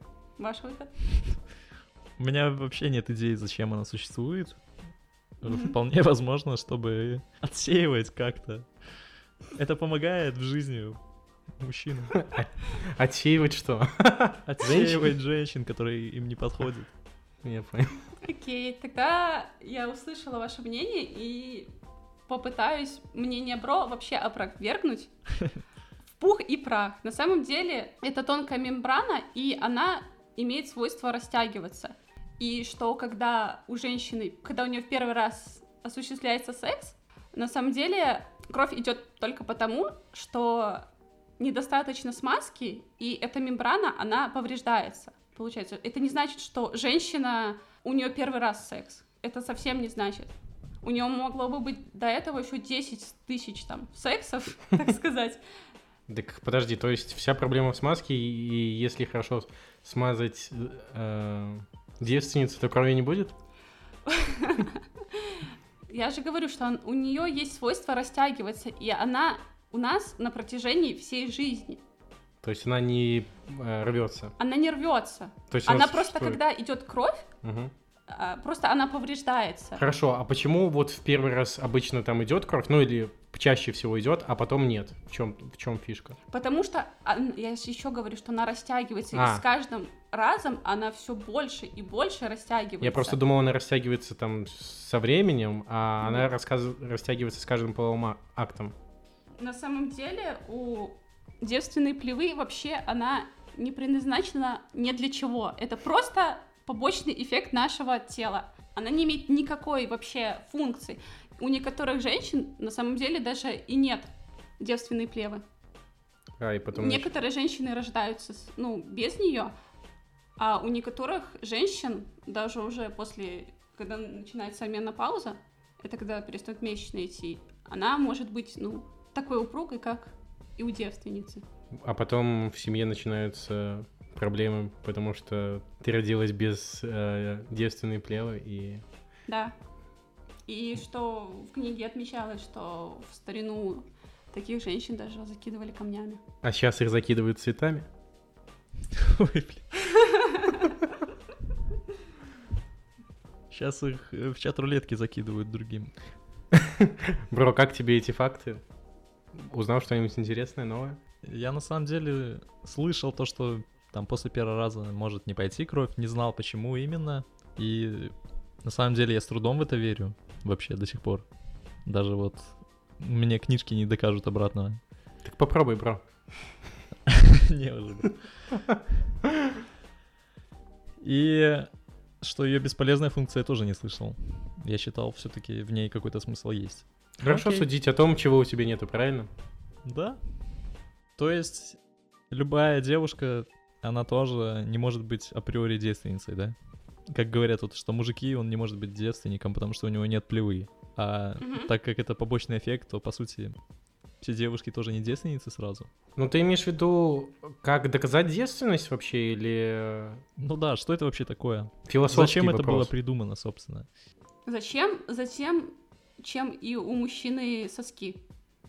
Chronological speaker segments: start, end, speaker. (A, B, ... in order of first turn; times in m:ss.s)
0:00.4-0:00.9 A
0:02.2-0:04.6 B
0:05.4-0:08.7 B
0:09.5-0:11.0 B
0:11.6-0:12.2 B
0:12.1-0:15.1 C
0:14.4-0:16.9 B
0:17.4-0:18.0 C
0:18.2-0:21.7 A
0:22.3-0:25.1 A
0:26.2-0:40.8 A
0:41.4-0:55.4 A
0:56.1-1:03.3 C
1:04.0-1:11.8 A
1:12.4-1:14.3 C
1:14.4-1:17.3 A
1:15.5-1:16.4 C
1:17.4-1:17.7 C
1:18.1-1:19.8 A
1:19.8-1:26.2 C
1:26.3-1:33.2 A
1:29.1-1:29.4 C
1:32.8-1:38.7 C
1:36.0-1:36.3 A
1:39.4-1:54.1 A
1:54.6-1:55.4 A
1:56.4-1:57.1 C
1:56.7-1:59.5 A
2:00.4-2:11.4 A
2:11.8-2:18.8 C
2:19.3-2:19.5 A
2:20.5-2:26.2 A
2:26.4-2:27.9 C
2:28.9-2:29.7 B
2:29.8-2:30.7 A
2:33.5-2:35.9 B
2:36.5-2:38.6 C
2:39.3-2:41.0 C
2:41.2-2:51.3 B
2:51.8-2:54.8 B
2:55.2-2:56.0 C
2:57.0-2:58.2 B
2:58.7-2:59.5 C
3:01.0-3:01.7 B
3:02.2-3:07.7 B
3:07.2-3:09.3 C
3:09.8-3:10.2 B
3:11.2-3:11.8 B
3:12.3-3:16.6 B
3:17.1-3:23.6 B
3:21.4-3:21.7 A
3:24.2-3:25.9 B
3:26.2-3:30.2 C
3:30.4-3:33.9 B
3:31.9-3:32.9 C
3:34.4-3:38.2 A